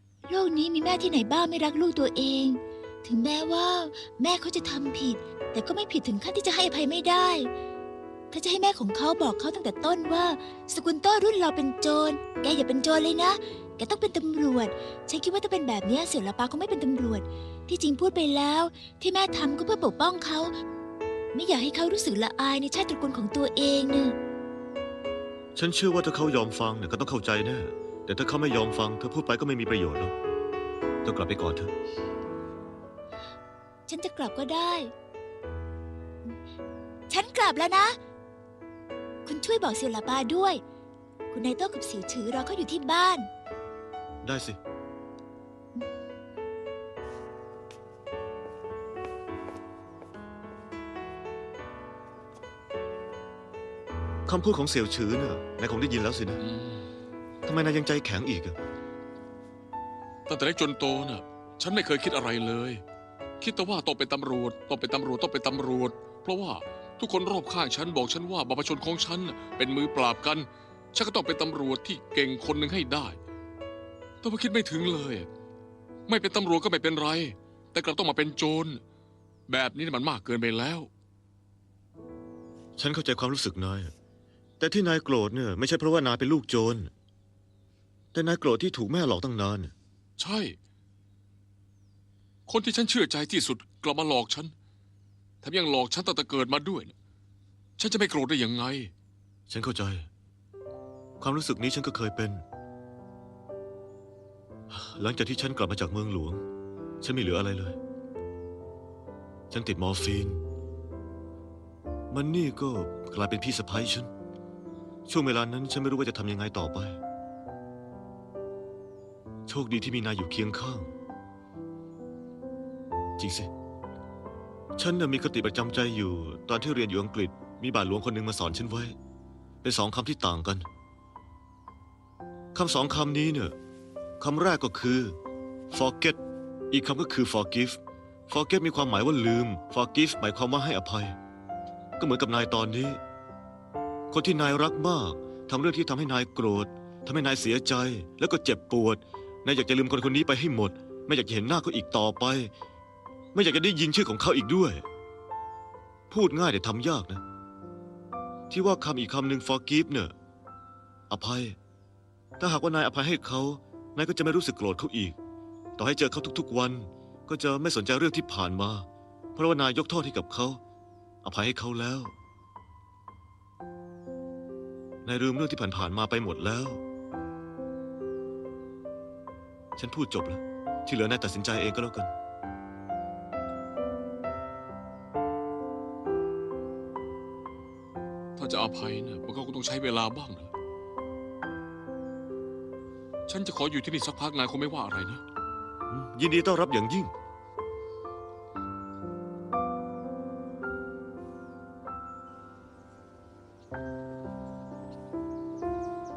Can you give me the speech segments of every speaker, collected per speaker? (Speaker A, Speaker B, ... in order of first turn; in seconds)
Speaker A: 0.3-7.5, 8.3-20.5, 21.3-24.1, 33.9-34.9, 37.1-38.0, 39.2-40.6, 41.3-43.3
Speaker B: 25.5-30.1, 31.0-31.7, 44.2-44.6, 54.2-56.4, 57.4-58.5, 82.8-83.9, 84.6-86.9, 88.1-89.7, 99.5-100.1, 101.2-102.4, 104.7-106.4, 107.0-107.8, 109.5-110.4, 112.1-114.1, 115.0-117.0, 119.5-120.9, 123.2-123.5, 124.8-128.9, 129.6-130.7, 132.5-133.6, 134.2-135.2, 135.7-136.2, 136.7-141.2, 142.0-143.0, 144.1-152.5, 153.3-154.8, 156.1-157.2, 158.5-160.1, 161.1-161.6, 162.4-165.2, 165.8-170.6, 171.2-172.1, 175.0-176.8, 179.8-182.1, 195.9-197.1
Speaker C: 56.5-56.8, 60.3-62.8, 63.4-73.2, 74.2-75.3, 76.1-78.8, 79.5-80.9, 90.2-90.6, 92.5-94.5, 95.4-96.9, 97.8-98.9, 188.4-190.5, 193.3-195.2